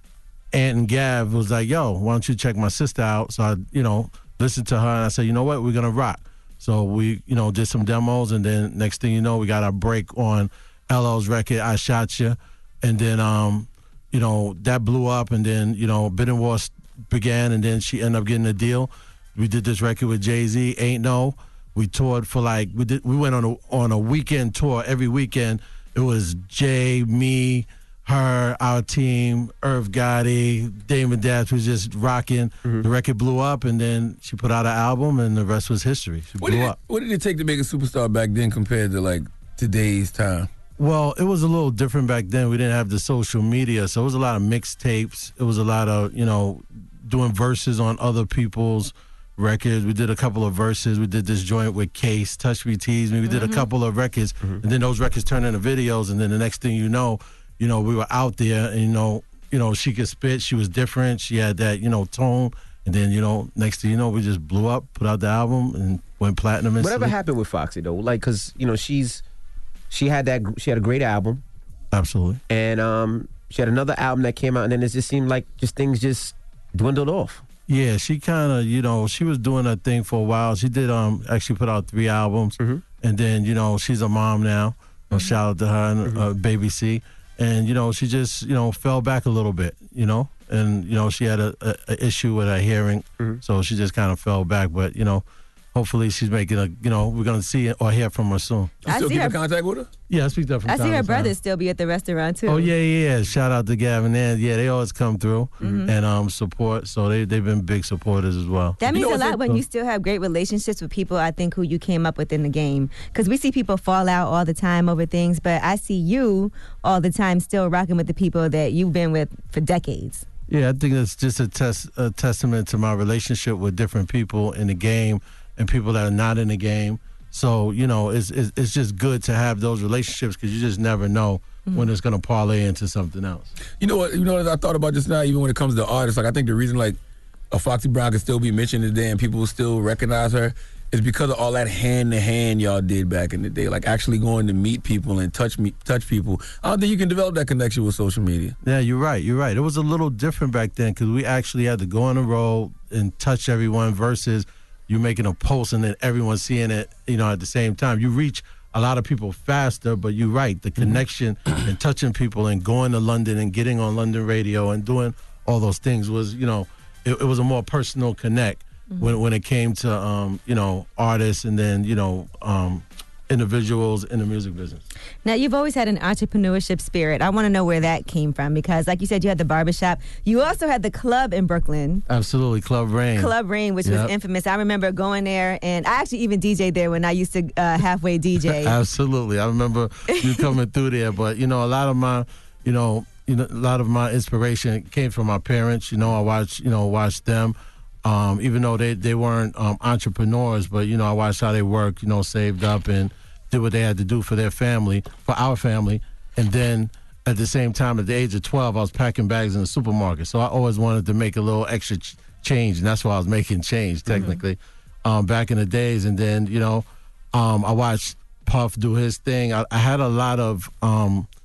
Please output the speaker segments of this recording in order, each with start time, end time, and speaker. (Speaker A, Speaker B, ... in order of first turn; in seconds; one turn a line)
Speaker A: 0.5-36.8
Speaker B: 36.4-40.5
Speaker A: 40.8-67.1
Speaker C: 53.3-53.6
Speaker D: 66.8-69.2
Speaker D: 69.9-71.4
Speaker A: 71.9-72.4
Speaker D: 72.5-77.4
Speaker A: 77.7-98.7
Speaker B: 98.8-99.9
Speaker C: 98.9-99.4
Speaker A: 100.1-101.3
Speaker C: 100.7-102.7
Speaker A: 102.5-109.6
Speaker C: 105.6-105.9
Speaker C: 108.8-120.2
Speaker B: 108.9-109.4
Speaker A: 120.5-133.5
Speaker B: 133.8-137.0
Speaker B: 137.5-148.5
Speaker A: 148.6-174.8
Speaker C: 175.2-182.0
Speaker A: 182.1-183.3
Speaker C: 183.2-188.7
Speaker A: 183.8-184.1
Speaker A: 188.4-221.3
Speaker C: 214.1-214.4